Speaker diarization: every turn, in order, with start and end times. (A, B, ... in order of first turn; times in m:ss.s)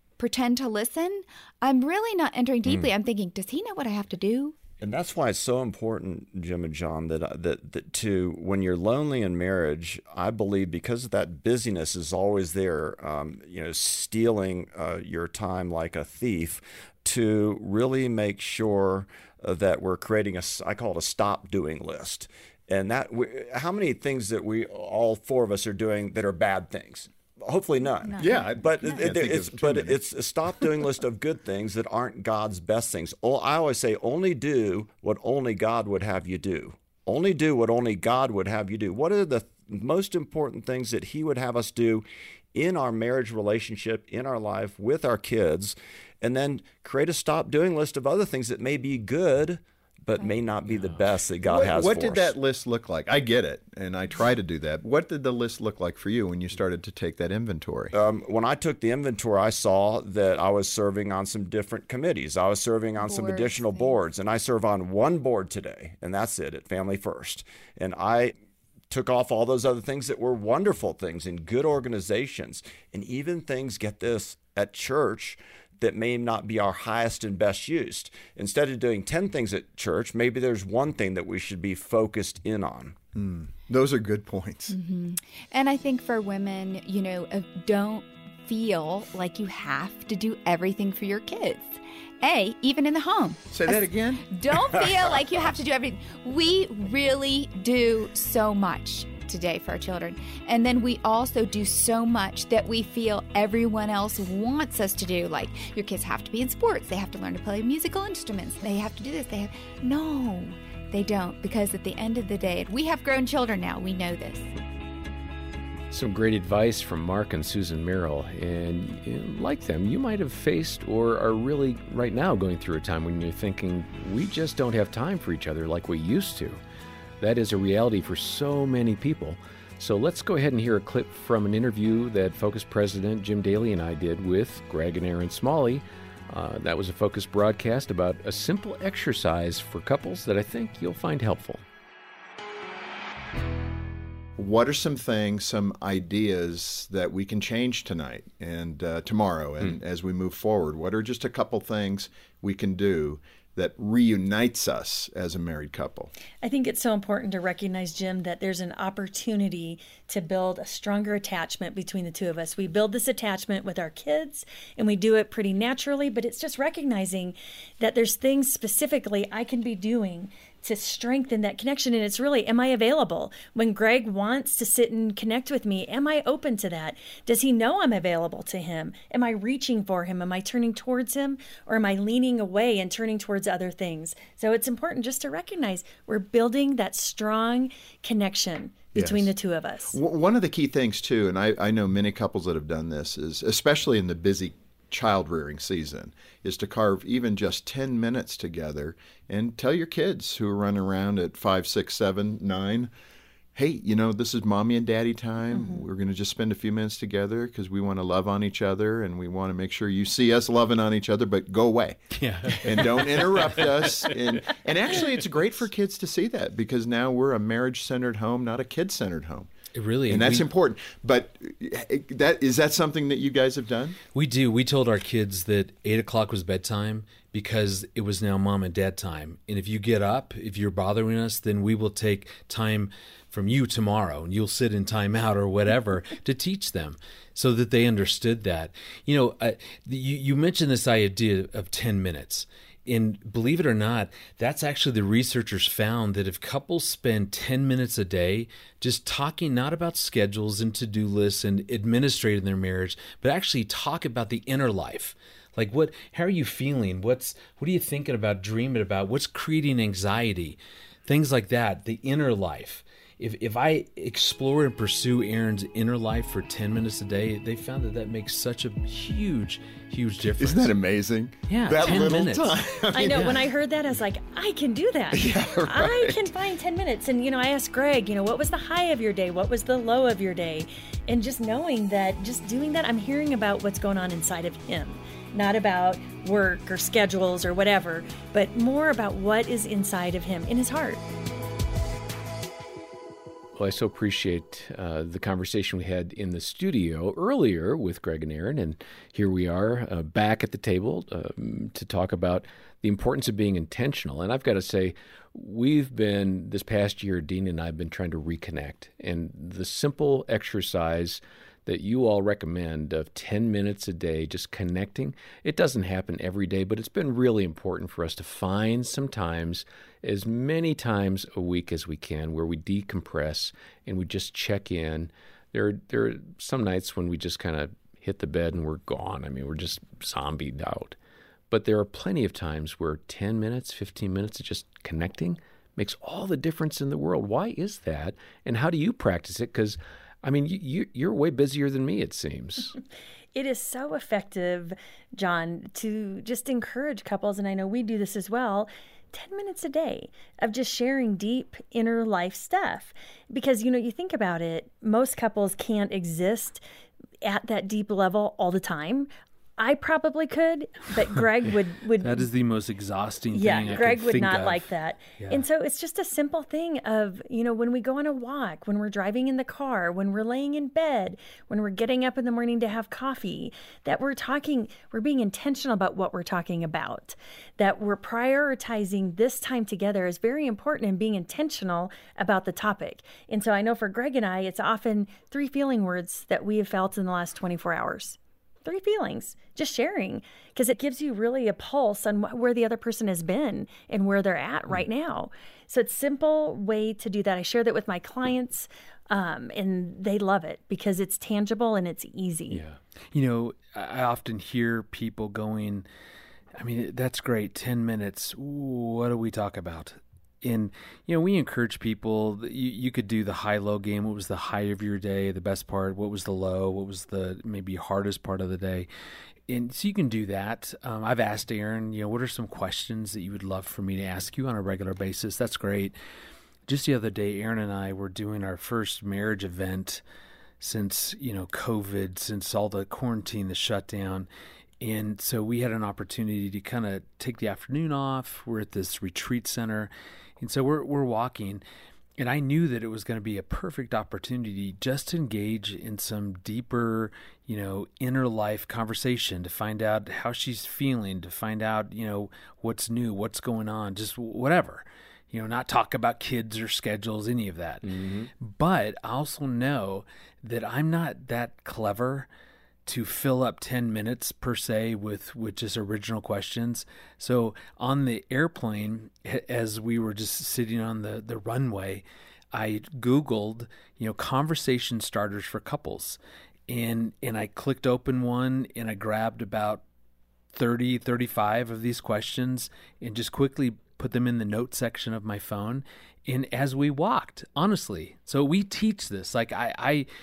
0:00.2-0:04.6 A
0:04.8-0:52.3 B
0:28.0-0:29.3 A
0:28.2-0:30.0 C
0:51.4-0:57.9 C
0:57.9-1:08.4 B
1:03.0-1:04.0 A
1:08.9-1:23.0 B
1:23.2-1:24.8 C
1:24.7-1:54.5 A
1:33.5-1:35.2 C
1:55.9-2:06.6 D
2:07.2-2:21.6 D
2:24.4-2:36.1 C
2:36.4-3:10.0 E
3:09.0-3:09.3 C
3:09.9-3:22.9 C
3:23.6-3:39.5 C
3:32.2-3:34.2 F
3:39.8-3:40.4 F
3:40.1-3:44.0 C
3:44.1-4:30.7 F
4:30.4-4:33.4 C
4:31.5-4:33.4 F
4:32.9-4:51.0 E
4:35.1-4:36.3 C
4:53.6-5:31.0 D
5:31.5-5:42.8 D
5:43.3-5:56.6 E
5:57.2-6:02.3 E
6:02.0-6:04.7 F
6:03.3-6:42.6 E
6:05.2-6:05.4 F
6:42.5-6:42.8 D
6:43.1-6:45.9 F
6:46.6-6:58.9 F
6:59.5-7:06.0 F
7:06.7-7:10.0 F
7:10.6-7:14.3 F
7:14.8-7:21.6 F
7:22.2-7:42.3 F
7:37.8-7:38.3 D
7:42.9-7:59.8 F
8:00.5-8:10.1 F